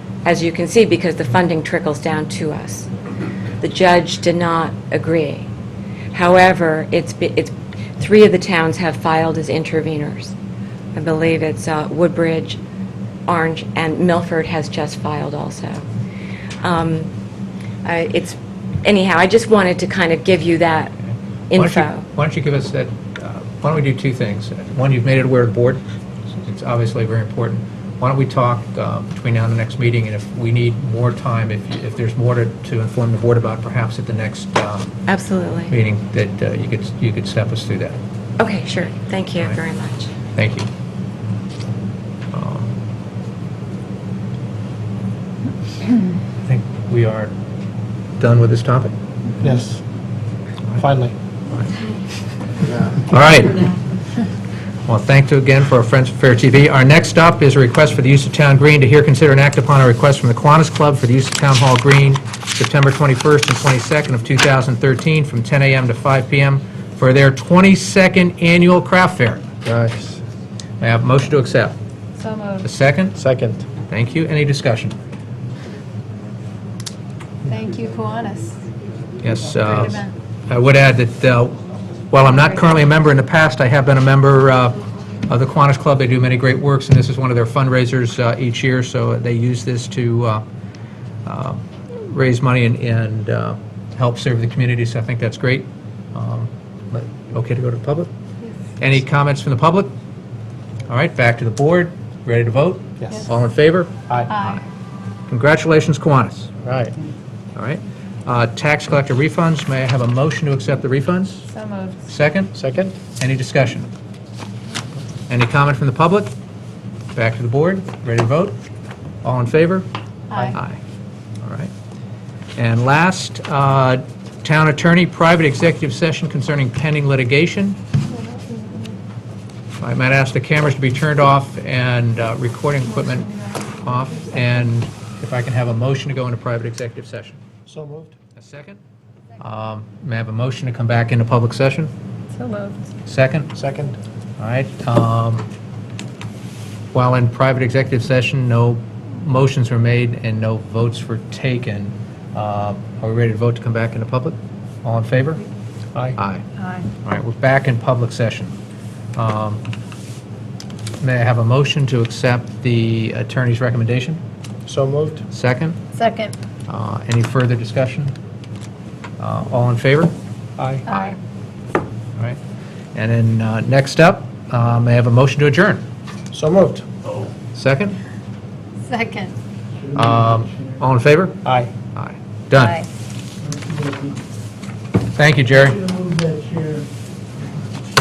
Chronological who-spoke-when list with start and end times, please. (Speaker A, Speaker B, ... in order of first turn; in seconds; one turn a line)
Speaker A: 0.2-2.9
Speaker A: 3.6-5.5
Speaker A: 6.1-10.3
Speaker A: 10.9-12.6
Speaker A: 13.3-15.8
Speaker A: 16.6-17.1
Speaker A: 17.8-20.9
Speaker A: 21.5-22.1
Speaker B: 21.6-25.8
Speaker B: 26.4-35.0
Speaker A: 35.1-35.8
Speaker B: 35.7-38.0
Speaker A: 38.4-40.1
Speaker B: 40.3-40.7
Speaker B: 42.3-42.8
Speaker B: 46.4-47.3
Speaker B: 48.2-48.9
Speaker C: 49.4-49.8
Speaker C: 50.8-51.1
Speaker B: 53.0-53.7
Speaker B: 54.9-69.5
Speaker C: 69.6-70.2
Speaker B: 70.8-71.8
Speaker D: 72.2-72.7
Speaker B: 72.6-73.2
Speaker C: 73.2-73.7
Speaker B: 73.9-75.0
Speaker D: 77.4-78.6
Speaker B: 79.2-81.6
Speaker D: 79.8-80.1
Speaker B: 82.1-90.4
Speaker B: 91.2-98.1
Speaker B: 98.8-99.9
Speaker B: 100.9-104.6
Speaker C: 103.0-103.3
Speaker D: 104.3-104.6
Speaker B: 105.3-106.5
Speaker C: 106.6-106.9
Speaker B: 107.5-111.5
Speaker D: 111.5-112.0
Speaker B: 112.1-112.5
Speaker C: 112.5-113.0
Speaker B: 113.1-113.9
Speaker B: 115.3-116.3
Speaker B: 117.1-118.5
Speaker B: 119.2-119.9
Speaker D: 120.3-120.6
Speaker B: 120.5-120.8
Speaker B: 121.4-121.7
Speaker B: 122.5-127.8
Speaker D: 128.1-129.0
Speaker B: 129.8-137.4
Speaker D: 133.0-134.2
Speaker C: 137.7-138.1
Speaker B: 138.3-138.8
Speaker B: 139.4-141.9
Speaker D: 142.3-142.9
Speaker B: 143.1-143.5
Speaker C: 143.5-144.0
Speaker B: 144.4-145.4
Speaker B: 146.9-155.4
Speaker B: 156.2-156.4
Speaker D: 156.6-156.9
Speaker B: 157.0-158.5
Speaker B: 159.2-159.6
Speaker B: 161.0-164.2
Speaker C: 164.7-165.2
Speaker B: 165.3-165.8
Speaker D: 165.9-166.3
Speaker B: 166.7-168.1
Speaker B: 169.2-170.1
Speaker C: 170.6-170.8
Speaker D: 170.9-171.2
Speaker B: 172.9-175.8
Speaker C: 176.3-176.9
Speaker B: 177.5-178.0
Speaker D: 178.8-179.3
Speaker B: 179.9-182.8
Speaker C: 181.4-181.7
Speaker D: 182.5-182.9
Speaker C: 183.5-184.1
Speaker B: 185.1-185.9
Speaker C: 185.9-186.8